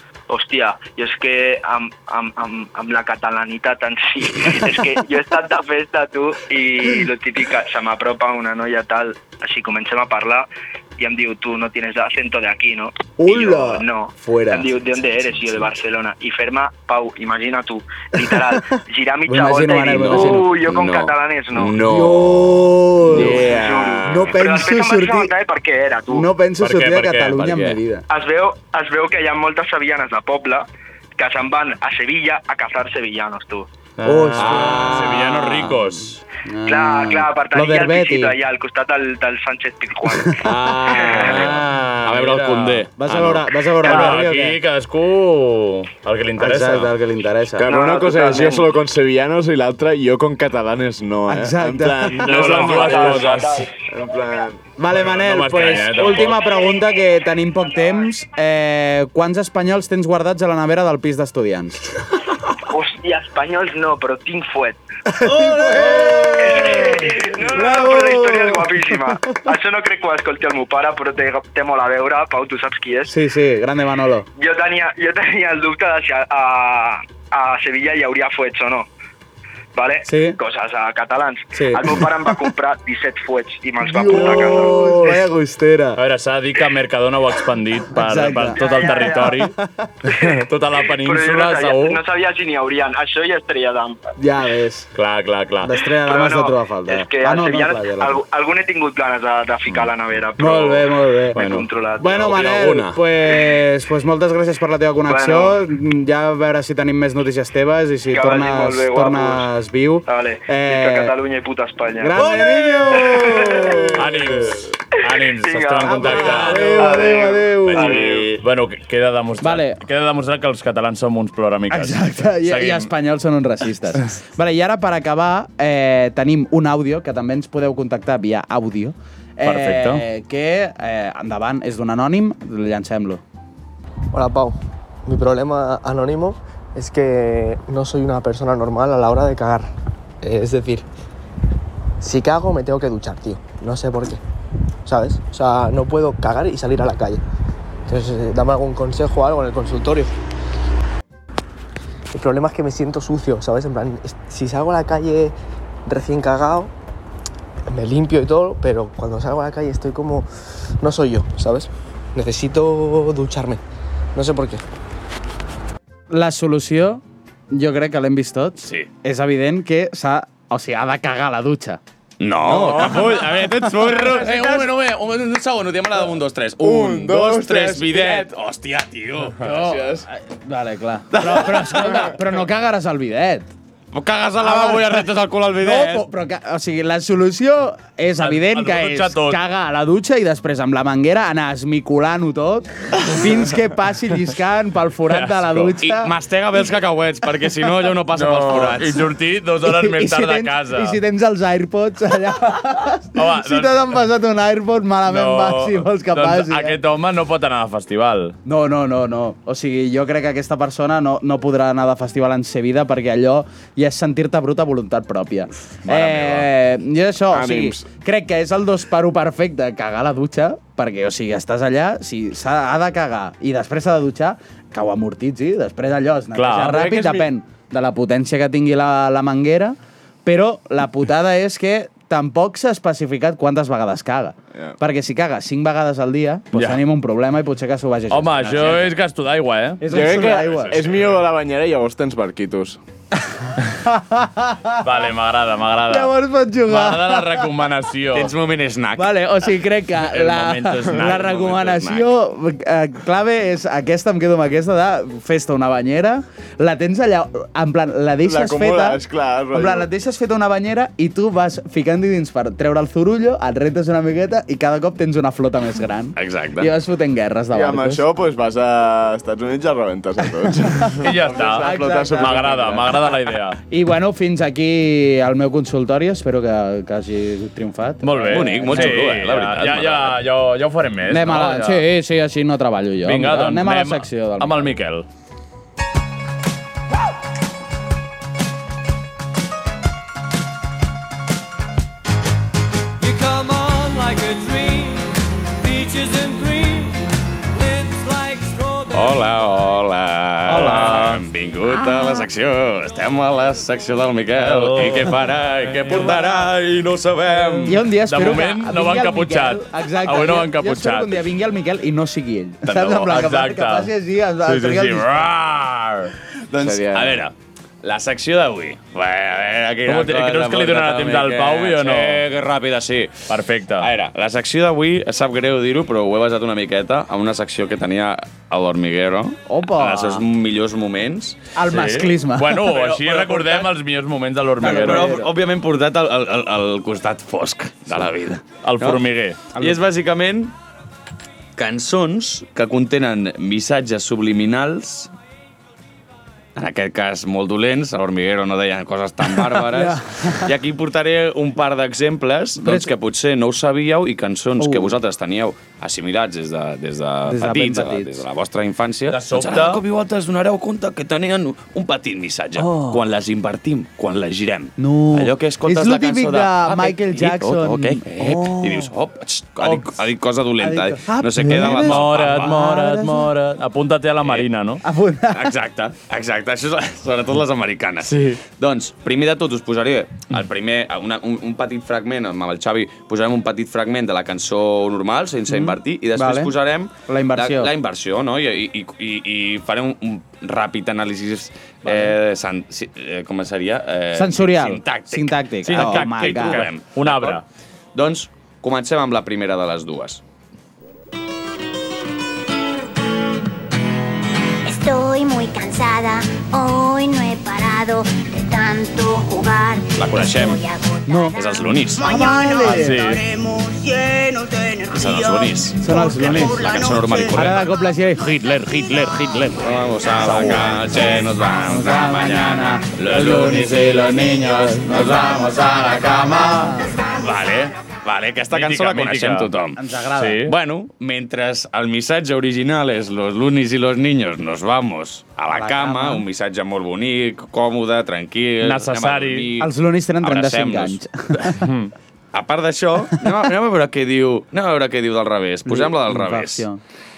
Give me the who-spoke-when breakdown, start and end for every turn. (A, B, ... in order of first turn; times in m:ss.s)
0:00.3-0:21.8 A
0:13.2-0:14.6 B
0:18.7-0:20.5 B
0:19.8-0:24.4 C
0:21.8-0:25.3 B
0:23.2-0:24.2 D
0:23.4-0:26.3 A
0:26.1-0:28.0 B
0:26.6-0:27.5 E
0:27.3-0:27.8 C
0:28.1-0:30.6 A
0:31.2-0:33.7 A
0:34.0-0:35.3 C
0:34.0-0:35.9 B
0:34.4-0:36.2 E
0:36.5-0:38.3 B
0:36.6-0:40.4 A
0:40.1-0:44.6 B
0:40.4-0:43.9 C
0:40.9-0:41.5 A
0:43.8-0:46.9 E
0:46.4-0:47.7 B
0:47.6-0:54.6 D
0:47.6-0:48.7 A
0:51.3-0:53.0 B
0:52.1-0:53.7 E
0:52.5-0:53.7 A
0:54.8-1:01.9 B
0:54.9-0:56.4 E
1:02.7-1:04.8 A
1:05.1-1:09.4 B
1:06.3-1:13.1 A
1:13.0-1:14.3 B
1:14.4-1:18.9 A
1:19.7-1:24.8 A
1:20.0-1:20.4 B
1:21.5-1:22.5 B
1:23.8-1:26.0 B
1:24.6-1:25.2 D
1:26.0-1:29.5 E
1:27.9-1:29.9 B
1:28.5-1:29.4 A
1:30.1-1:32.0 E
1:30.9-1:34.1 A
1:34.2-1:34.9 B
1:34.9-1:35.7 E
1:35.6-1:38.2 B
1:36.0-1:42.3 A
1:40.4-1:41.4 B
1:41.3-1:43.0 C
1:42.0-1:51.1 B
1:45.1-1:45.6 A
1:48.1-1:49.5 A
1:50.0-1:52.2 A
1:52.0-1:54.3 B
1:52.9-1:53.9 A
1:53.9-2:02.9 E
1:55.4-1:58.1 A
1:55.8-1:58.0 B
1:57.7-1:58.4 C
1:59.4-1:59.8 B
2:01.7-2:13.2 B
2:09.4-2:10.0 E
2:14.1-2:20.9 F
2:22.0-2:24.2 F
2:24.8-2:27.2 F
2:27.9-2:30.1 F
2:32.1-2:35.3 F
2:35.8-2:36.7 F
2:37.7-2:40.3 F
2:40.8-2:43.6 F
2:44.1-2:44.6 F
2:46.1-2:51.8 B
2:48.6-2:48.9 C
2:52.2-2:59.4 C
2:52.5-2:53.0 D
2:56.6-2:58.2 D
2:59.4-3:03.5 B
2:59.4-3:00.1 D
3:01.1-3:02.1 C
3:03.9-3:06.0 C
3:04.4-3:05.1 B
3:05.6-3:16.1 B
3:08.2-3:09.4 E
3:15.1-3:15.7 E
3:15.8-3:19.0 C
3:18.1-3:21.0 E
3:19.6-3:26.8 B
3:23.1-3:23.7 E
3:25.1-3:28.4 E
3:28.4-3:58.9 B
3:37.3-3:37.9 D
3:46.3-3:47.0 E
3:46.7-3:47.2 D
3:56.5-3:56.8 E
3:58.1-3:59.9 E
3:59.8-4:00.8 B
3:59.9-4:02.8 D
4:03.8-4:04.8 B
4:04.8-4:06.1 E
4:05.9-4:07.5 B
4:06.7-4:08.3 E
4:08.1-4:09.2 C
4:09.0-4:28.1 B
4:10.0-4:11.6 E
4:11.0-4:12.1 C
4:18.2-4:19.9 D
4:26.2-4:26.7 C
4:27.5-4:33.0 D
4:31.0-4:33.6 E
4:31.5-4:32.6 B
4:33.7-4:39.0 B
4:38.0-4:41.9 E
4:38.3-4:40.2 C
4:41.1-4:44.7 B
4:43.0-4:45.0 E
4:53.0-4:59.3 G
4:58.9-5:07.8 C
5:00.5-5:01.2 E
5:04.4-5:06.2 E
5:07.5-5:11.3 E
5:07.6-5:15.2 B
5:12.6-5:13.2 C
5:13.0-5:13.9 E
5:14.4-5:16.1 E
5:16.5-5:31.4 C
5:16.6-5:17.2 D
5:19.8-5:22.2 E
5:23.3-5:23.9 E
5:29.5-5:30.2 B
5:31.6-5:32.7 B
5:31.7-5:35.1 E
5:32.6-5:33.7 C
5:34.6-5:35.3 B
5:34.6-5:40.5 C
5:38.6-5:39.4 E
5:41.6-5:45.1 C
5:46.6-6:12.6 C
5:49.4-5:50.5 B
5:52.6-5:52.9 B
5:54.6-5:54.9 B
5:57.3-5:58.2 B
5:59.1-5:59.8 E
6:02.6-6:03.0 B
6:04.8-6:08.9 B
6:10.6-6:13.3 B
6:11.5-6:14.8 E
6:14.8-6:15.5 B
6:15.3-6:37.4 C
6:18.1-6:18.4 E
6:25.5-6:26.5 B
6:27.1-6:27.7 B
6:31.8-6:32.1 B
6:34.1-6:36.6 B
6:35.6-6:37.4 E
6:37.9-6:40.2 C
6:44.6-6:51.8 H
6:50.0-6:50.6 C
6:51.1-6:51.3 B
6:51.4-6:52.2 C
6:52.0-6:53.2 B
6:52.8-6:53.2 E
6:54.8-6:57.7 C
6:55.8-6:56.7 B
6:57.3-6:58.6 B
6:58.2-6:59.6 E
6:59.6-7:05.3 C
7:00.2-7:06.9 B
7:00.2-7:00.5 E
7:07.2-7:09.8 C
7:08.5-7:09.5 E
7:09.8-7:10.4 B
7:10.2-7:10.5 E
7:10.4-7:21.4 C
7:15.5-7:16.2 B
7:18.6-7:19.5 E
7:19.6-7:21.6 B
7:21.6-7:21.9 E
7:22.3-7:26.7 C
7:25.6-7:26.8 B